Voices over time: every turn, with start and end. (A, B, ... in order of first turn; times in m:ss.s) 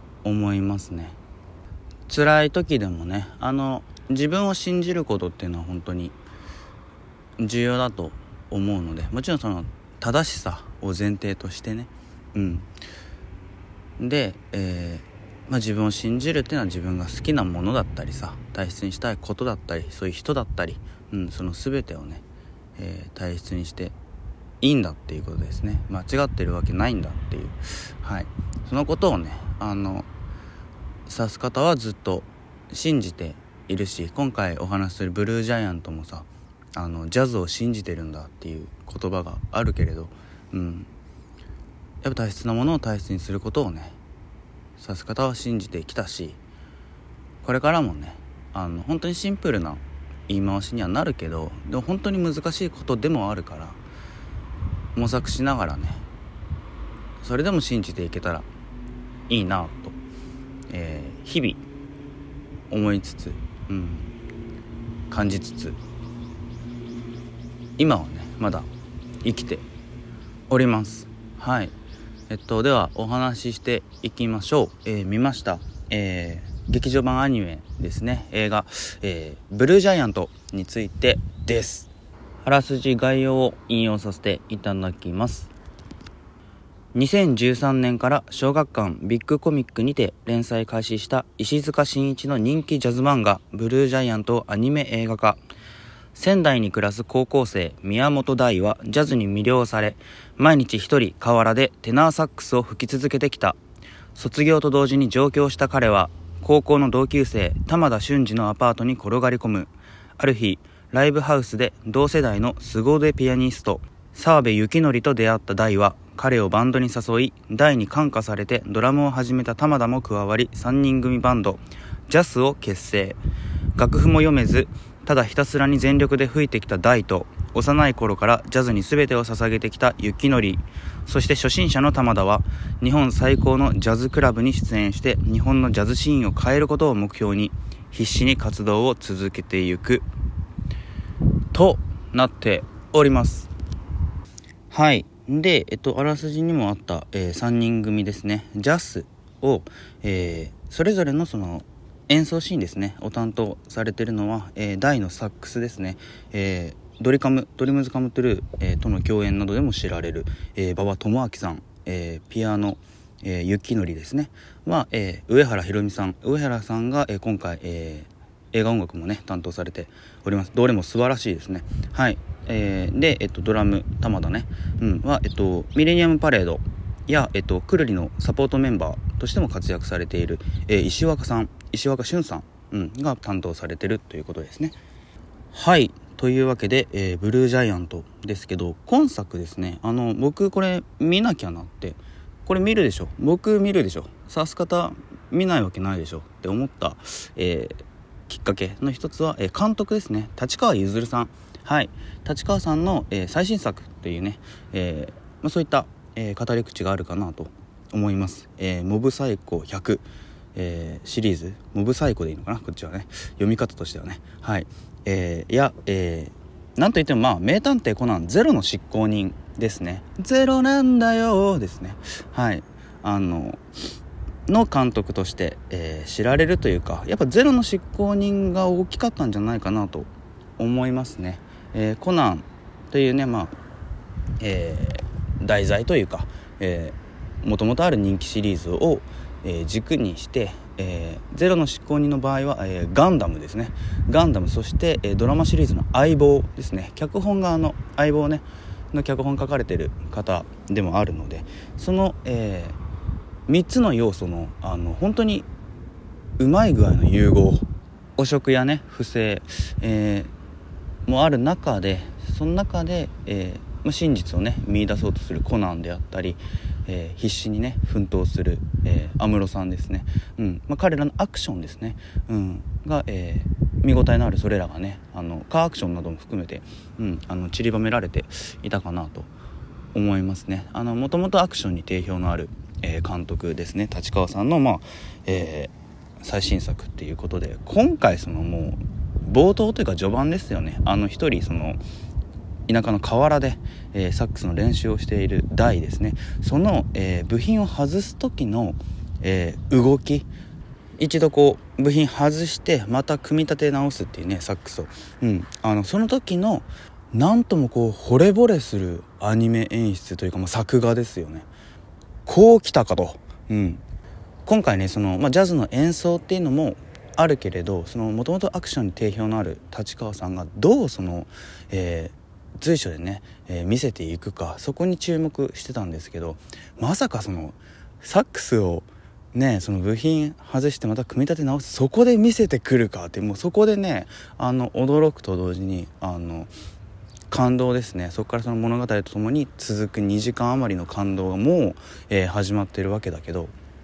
0:00.2-0:01.2 A
0:02.1-0:06.1 A
0:07.4-0:12.7 A
0:14.0-0:22.2 A
0:22.8-0:23.9 A
0:24.6-0:30.1 A
0:31.1-0:40.9 A
0:42.0-0:44.0 A
0:44.8-0:46.4 A
0:47.4-0:53.8 A
0:54.9-0:56.0 A
0:57.2-0:58.5 A
0:59.3-1:00.0 A
1:00.7-1:01.6 A
1:02.7-1:04.1 A
1:05.1-1:05.8 A
1:07.8-1:08.7 A
1:09.2-1:09.6 A
1:10.5-1:11.7 A
1:12.3-1:21.9 A
1:22.4-1:25.5 A
1:26.9-1:35.4 A
1:36.1-1:43.6 A
1:44.1-2:03.2 A
2:03.8-2:20.0 A
2:21.5-2:23.5 A
2:24.7-3:04.8 A
3:05.5-3:30.0 A
3:30.5-3:43.6 A
3:44.5-3:53.5 A
3:54.4-4:12.8 A
4:13.5-4:15.5 A
4:16.4-4:17.6 A
4:18.2-4:20.3 A
4:21.1-4:39.3 A
4:39.9-4:51.8 A
4:52.7-5:00.3 A
5:01.0-5:11.5 A
5:12.2-5:13.8 A
5:14.4-5:36.5 A
5:37.3-5:43.5 A